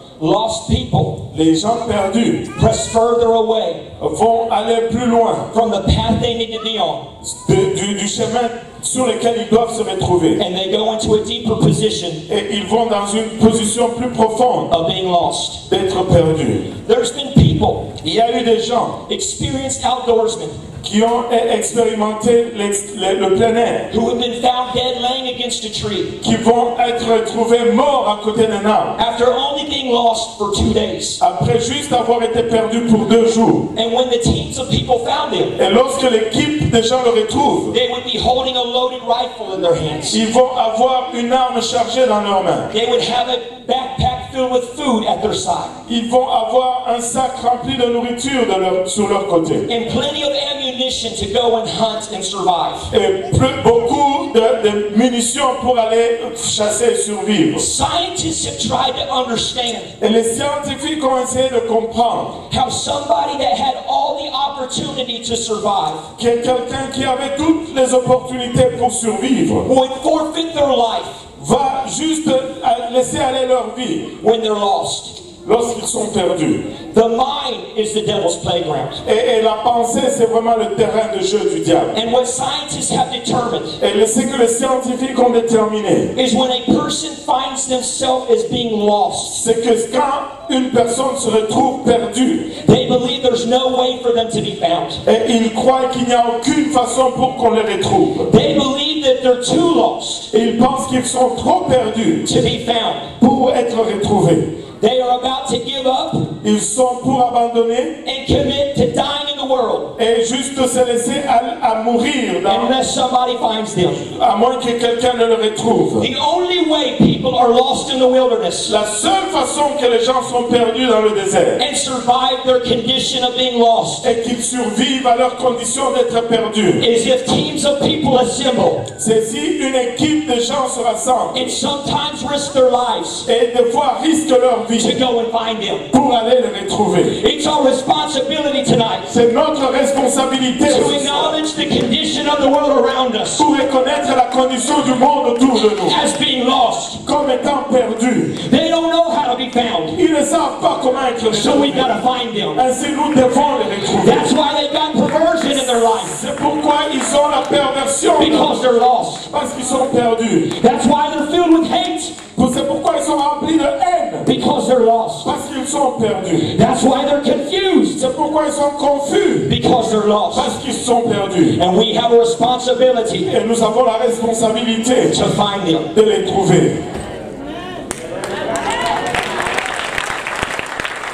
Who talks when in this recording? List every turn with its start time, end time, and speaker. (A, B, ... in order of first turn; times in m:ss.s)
0:00.2-0:01.2 A
0:01.3-0:02.5 B
0:02.6-0:03.9 A
0:04.0-0:05.5 B
0:05.5-0:07.1 A
0:07.2-0:10.4 B
0:10.4-0:12.2 A
0:12.3-0:14.7 B
0:14.7-0:15.6 A
0:15.7-0:16.7 B
0:16.8-0:18.0 A
0:18.0-0:19.0 B
0:19.1-0:20.6 A
0:20.8-0:23.9 B
0:23.9-0:26.2 A
0:26.2-0:29.0 B
0:29.0-0:31.2 A
0:31.2-0:33.7 B
0:33.8-0:35.6 A
0:35.6-0:37.8 B
0:37.7-0:40.2 A
0:40.1-0:42.7 B
0:42.7-0:45.8 A
0:45.9-0:49.7 B
0:49.7-0:52.9 A
0:52.9-0:57.7 B
0:57.6-0:59.9 A
1:00.0-1:02.4 B
1:02.5-1:06.1 A
1:06.2-1:09.7 B
1:09.6-1:11.2 A
1:11.4-1:14.2 B
1:14.2-1:15.2 A
1:15.4-1:16.7 B
1:16.9-1:19.0 A
1:19.0-1:22.0 B
1:21.9-1:23.8 A
1:23.8-1:26.1 B
1:26.2-1:29.4 A
1:29.3-1:32.5 B
1:32.6-1:35.0 A
1:35.0-1:38.3 B
1:38.3-1:40.3 A
1:40.3-1:42.3 B
1:42.2-1:43.1 A
1:43.2-1:44.5 B
1:44.8-1:46.3 A
1:46.4-1:48.0 B
1:48.0-1:50.0 A
1:50.0-1:52.7 B
1:52.5-1:54.0 A
1:54.0-1:56.1 B
1:56.0-1:58.8 A
1:58.7-2:01.6 B
2:01.6-2:04.1 A
2:04.0-2:06.8 B
2:06.8-2:08.9 A
2:09.0-2:11.6 B
2:11.3-2:13.3 A
2:13.3-2:15.0 B
2:14.8-2:15.9 A
2:15.9-2:17.2 B
2:17.2-2:19.1 A
2:19.1-2:21.4 B
2:20.6-2:23.4 A
2:23.4-2:26.0 B
2:25.8-2:27.0 A
2:27.0-2:28.4 B
2:28.4-2:30.0 A
2:29.9-2:32.0 B
2:31.3-2:32.6 A
2:32.6-2:34.3 B
2:34.0-2:36.2 A
2:35.6-2:38.7 B
2:38.2-2:39.3 A
2:39.3-2:40.6 B
2:40.6-2:42.2 A
2:42.4-2:44.3 B
2:44.2-2:45.3 A
2:45.2-2:46.6 B
2:46.4-2:48.0 A
2:48.0-2:49.6 B
2:49.5-2:50.5 A
2:50.3-2:51.6 B
2:51.6-2:53.3 A
2:53.2-2:55.3 B
2:55.1-2:55.9 A
2:55.9-2:56.8 B